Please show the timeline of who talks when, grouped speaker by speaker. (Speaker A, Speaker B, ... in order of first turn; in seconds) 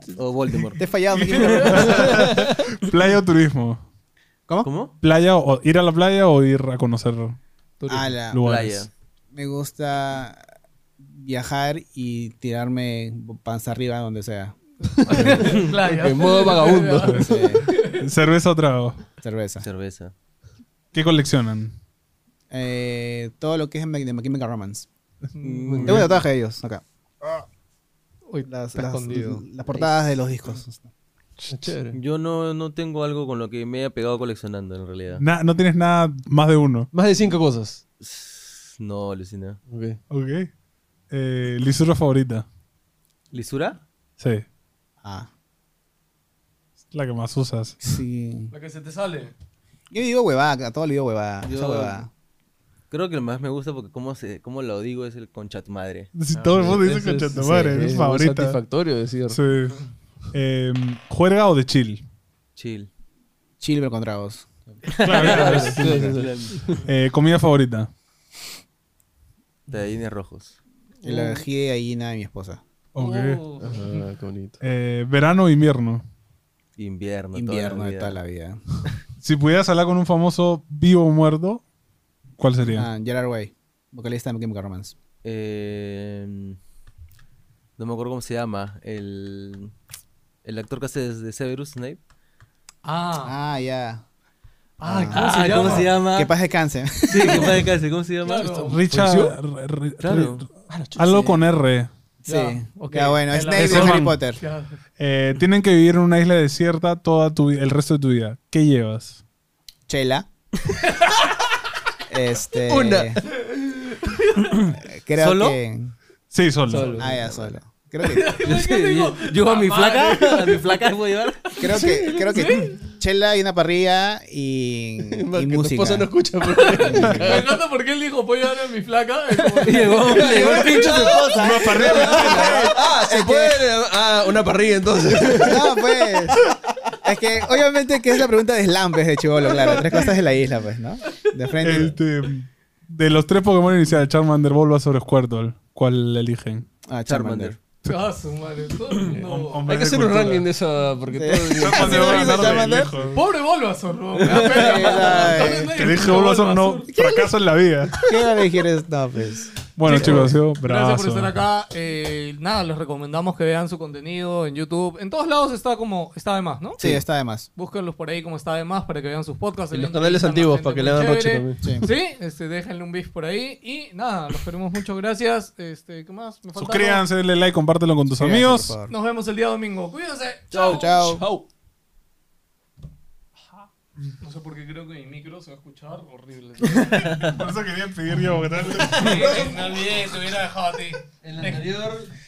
Speaker A: 0.1-0.8, 4.6-4.9, 8.4-8.9, 19.6-20.1, 31.9-35.2, 38.0-39.6, 43.3-43.8, 51.4-52.0, 52.9-56.1, 62.6-62.9, 64.9-66.8, 69.7-70.6, 76.8-78.2, 85.2-86.6, 87.8-89.7, 90.4-92.0, 95.1-96.3, 97.1-98.8, 100.0-100.5, 115.2-115.6, 118.4-121.4, 129.7-132.0, 147.1-147.6, 187.0-187.4
Speaker B: 0.7-2.3, 7.9-8.4, 9.3-10.4, 11.0-14.6, 15.1-15.6, 17.2-17.7, 19.2-19.7, 22.5-24.9, 25.4-27.5, 28.5-30.9, 45.0-45.3, 47.8-48.5, 49.9-52.1, 63.6-64.8, 65.8-66.2, 71.0-72.6, 77.3-78.6, 82.7-84.9, 93.2-94.0, 94.8-97.7, 102.2-104.4, 109.9-110.3, 112.1-113.2, 114.8-115.9, 116.9-118.4, 121.6-126.1, 126.8-127.5, 130.2-133.6, 135.4-142.0, 146.8-147.6, 151.2-152.9, 154.4-155.8, 156.9-157.3, 157.9-160.3, 166.8-167.5, 171.6-171.9, 178.2-178.9, 180.7-181.2
Speaker C: 1.2-3.8, 5.0-7.4, 8.2-8.9, 17.8-19.0, 20.9-21.7, 31.4-31.7, 35.2-36.9, 40.1-40.5, 41.1-42.5, 44.2-44.4, 46.9-47.8, 56.1-58.6, 59.3-59.8, 60.3-62.0, 65.0-66.0, 66.8-67.9, 72.9-73.4, 74.6-76.0, 79.2-81.6, 82.4-82.9, 98.7-101.9, 103.5-104.2, 105.0-109.2, 116.3-117.0, 131.3-132.7, 141.6-146.7, 149.1-150.5, 151.6-153.2, 155.6-158.0, 159.8-161.3, 176.6-178.8, 187.1-189.4
Speaker D: 2.1-2.5, 15.0-17.4, 25.7-26.1, 31.5-32.0, 36.9-37.8, 39.7-40.0, 56.5-59.4, 65.3-66.8, 73.6-74.6, 98.8-99.4, 100.7-101.4, 112.7-113.9, 116.7-117.1, 121.8-122.3, 125.1-127.6, 129.3-130.7, 131.8-135.7, 149.0-153.0, 154.2-155.1, 169.7-171.8, 180.5-181.4, 189.0-189.8, 191.2-192.1
Speaker E: 7.8-8.2, 15.0-18.1, 25.4-25.9, 28.3-29.4, 48.5-49.3, 71.0-71.5, 73.0-74.1, 92.8-93.3, 94.8-95.9, 98.2-98.8, 102.3-104.8, 110.9-111.1, 118.0-120.8, 121.5-122.8, 126.5-131.1, 131.8-132.2, 147.8-149.7, 151.8-152.3, 153.1-156.9, 159.9-166.8, 167.6-177.1, 178.9-181.1, 184.2-187.3, 188.6-191.7